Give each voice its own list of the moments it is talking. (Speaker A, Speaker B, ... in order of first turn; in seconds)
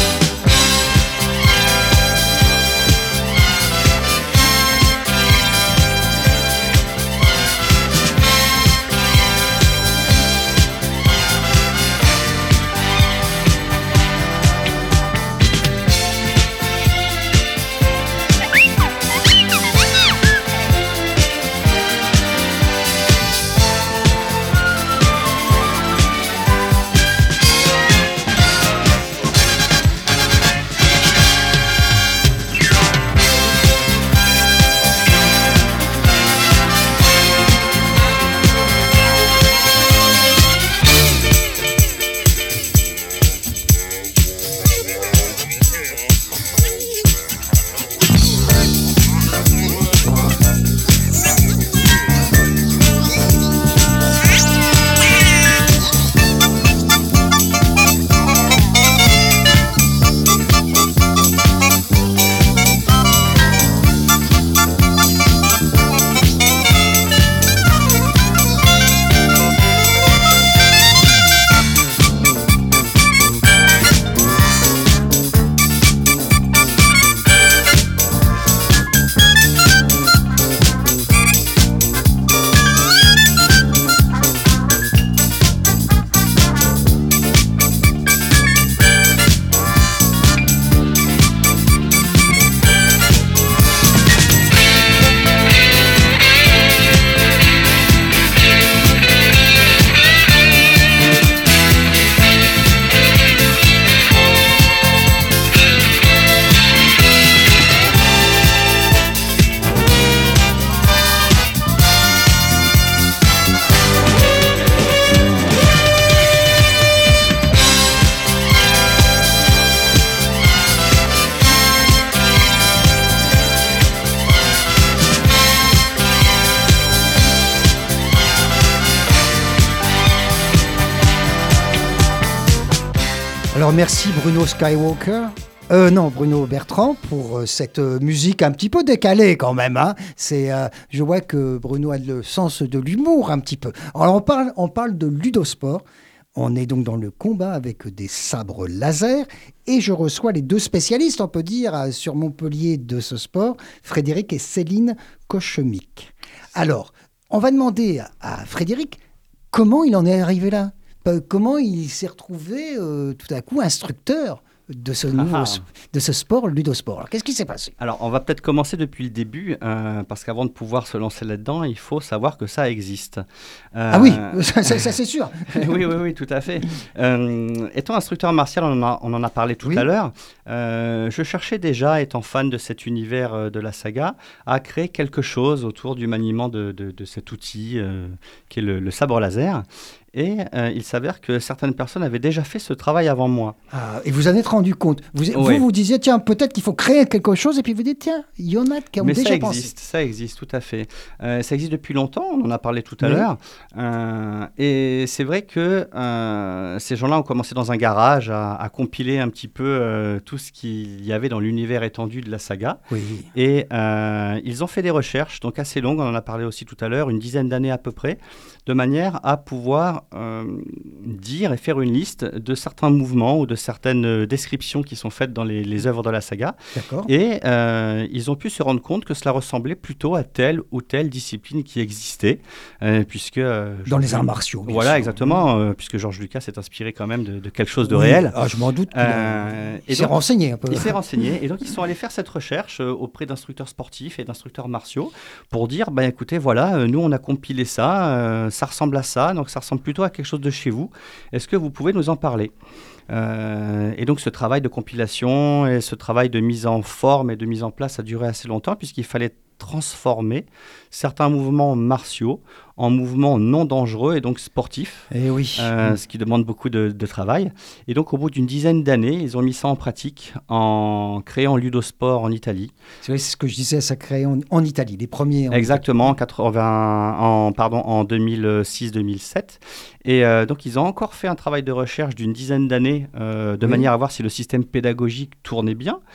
Speaker A: 133.5-159.0, 159.5-167.7, 173.9-175.8, 179.6-179.9, 193.7-199.7, 203.0-203.3, 212.9-213.3, 226.8-227.1, 233.9-235.4, 237.8-241.0, 265.1-266.0, 273.0-275.8, 283.6-283.9
Speaker B: 165.2-165.6, 167.8-173.2, 173.8-174.9, 175.5-193.6, 195.3-195.7, 199.0-212.8, 213.3-238.3, 238.9-240.1, 240.7-252.5, 253.1-272.7, 275.5-286.0